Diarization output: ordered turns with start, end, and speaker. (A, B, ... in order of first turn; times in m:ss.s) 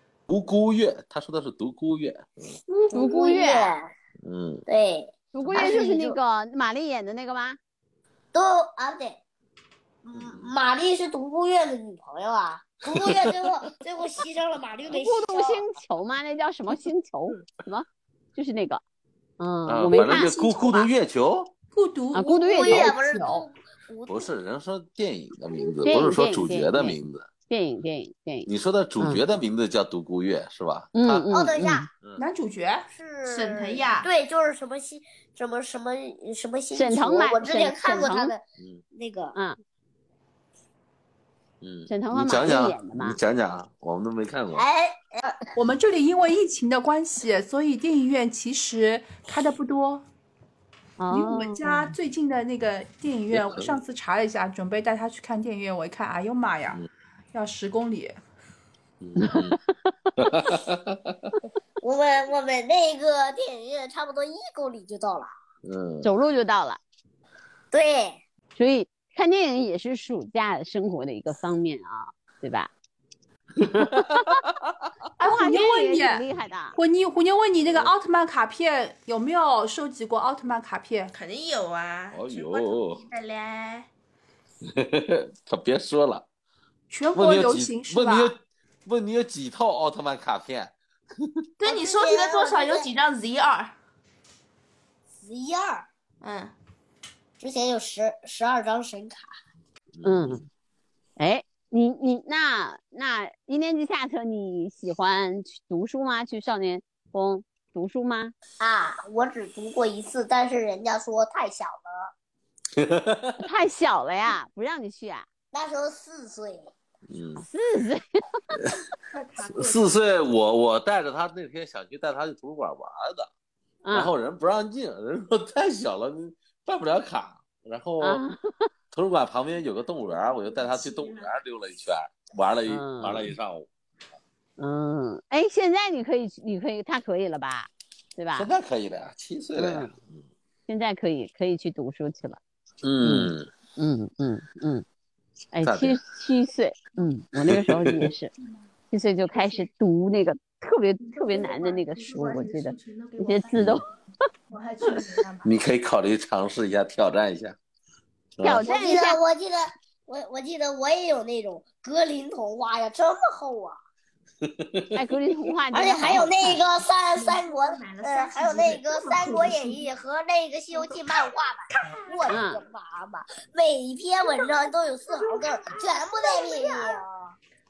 0:00.3-0:02.3 A
0:02.9-0:03.8 B
0:02.9-0:03.9 C
0:04.2-0:04.6 A
0:04.7-0:06.2 C
0:05.3-0:07.6 B
0:08.3-0:09.2 C
0:10.0-0:15.6 C
0:10.2-0:10.5 A
0:12.9-0:13.5 A
0:14.9-0:18.8 B
0:19.4-0:20.4 B
0:19.7-0:21.5 A
0:19.9-0:20.9 D
0:21.7-0:23.5 D
0:22.1-0:23.0 B
0:22.4-0:24.3 C
0:24.1-0:27.3 A
0:25.8-0:27.0 B
0:27.5-0:29.2 B
0:28.5-0:31.3 A
0:31.0-0:31.9 B
0:31.3-0:31.9 C
0:32.2-0:32.9 D
0:32.9-0:39.4 C
0:33.2-0:34.1 E
0:36.7-0:38.4 B
0:41.6-0:44.7 A
0:41.9-0:43.2 B
0:44.5-0:45.5 C
0:45.6-0:50.1 D
0:51.0-0:52.0 B
0:51.1-0:58.2 D
0:53.3-0:53.7 A
0:59.0-0:59.6 A
0:59.2-0:59.6 B
1:00.2-1:01.4 A
1:01.8-1:05.3 C
1:05.6-1:06.1 A
1:06.0-1:06.8 B
1:07.7-1:08.2 C
1:08.6-1:12.7 B
1:13.6-1:14.3 A
1:13.7-1:14.4 B
1:15.2-1:21.1 D
1:15.2-1:16.8 B
1:17.7-1:17.9 A
1:21.1-1:23.9 E
1:22.1-1:23.0 A
1:24.7-1:26.2 A
1:26.9-1:28.4 D
1:27.2-1:31.4 A
1:31.6-1:33.8 E
1:31.6-1:32.9 C
1:35.2-1:35.9 C
1:36.2-1:36.5 E
1:37.4-1:39.3 C
1:40.0-1:40.4 A
1:40.0-1:40.5 B
1:41.2-1:48.3 B
1:48.6-1:52.1 C
1:52.8-1:53.4 A
1:53.4-1:55.3 B
1:55.5-1:56.7 C
1:57.1-1:57.4 A
1:57.4-1:58.4 B
1:59.1-2:00.0 E
1:59.5-2:03.3 A
2:03.8-2:04.1 B
2:03.9-2:08.2 A
2:08.0-2:08.7 B
2:08.9-2:13.7 A
2:10.5-2:11.3 E
2:12.7-2:13.3 B
2:14.6-2:18.5 B
2:18.4-2:20.2 A
2:19.6-2:19.9 B
2:20.7-2:22.4 B
2:22.8-2:23.5 A
2:23.0-2:24.8 B
2:25.5-2:28.3 B
2:25.6-2:26.0 A
2:27.4-2:28.1 A
2:28.9-2:33.9 B
2:29.3-2:29.6 E
2:31.0-2:33.6 E
2:33.6-2:33.8 A
2:34.5-2:35.6 E
2:35.4-2:37.6 A
2:38.4-2:38.7 A
2:38.4-2:39.2 B
2:38.6-2:43.8 C
2:44.4-2:45.0 A
2:44.9-2:46.6 B
2:45.7-2:57.4 C
2:47.1-2:49.9 E
2:50.7-2:52.4 E
2:52.3-2:52.6 B
2:54.2-2:57.0 E